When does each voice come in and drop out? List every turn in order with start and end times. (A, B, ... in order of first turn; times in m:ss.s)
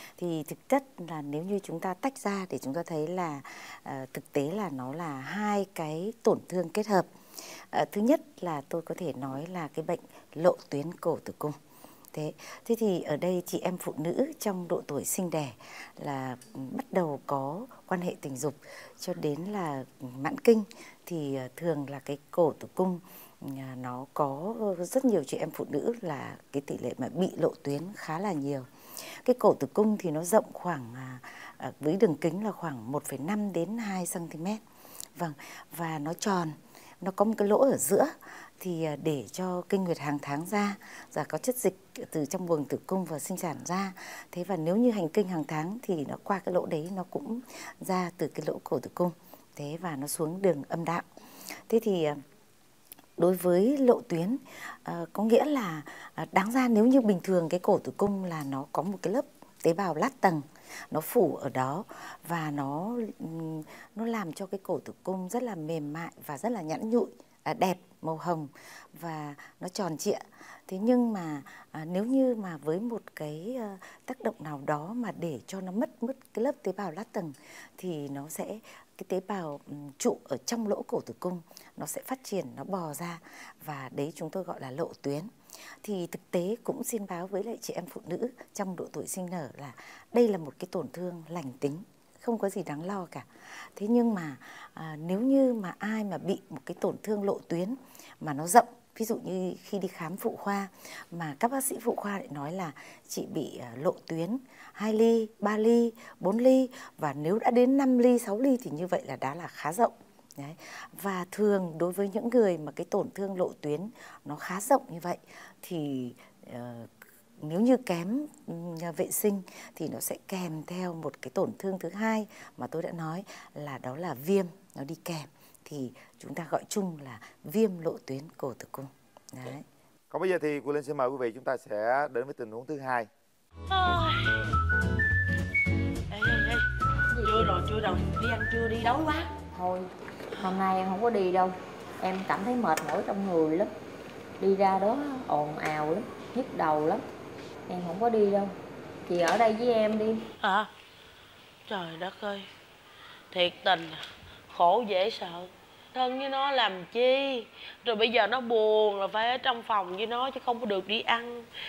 0:00.2-0:11.6 A
0:12.1-0:34.6 A
0:35.2-0:51.1 A
0:51.7-0:52.2 A
0:53.2-1:25.3 A
1:25.8-2:09.6 A
2:10.1-2:13.1 B
2:13.7-2:14.6 C
2:16.1-2:16.7 C
2:17.1-2:17.6 D
2:17.2-2:19.3 C
2:19.5-2:23.7 D
2:24.4-2:27.0 D
2:27.7-2:28.6 D
2:29.1-2:30.2 D
2:30.4-2:30.7 C
2:31.7-2:32.5 C
2:33.3-2:34.0 C
2:34.5-2:41.5 C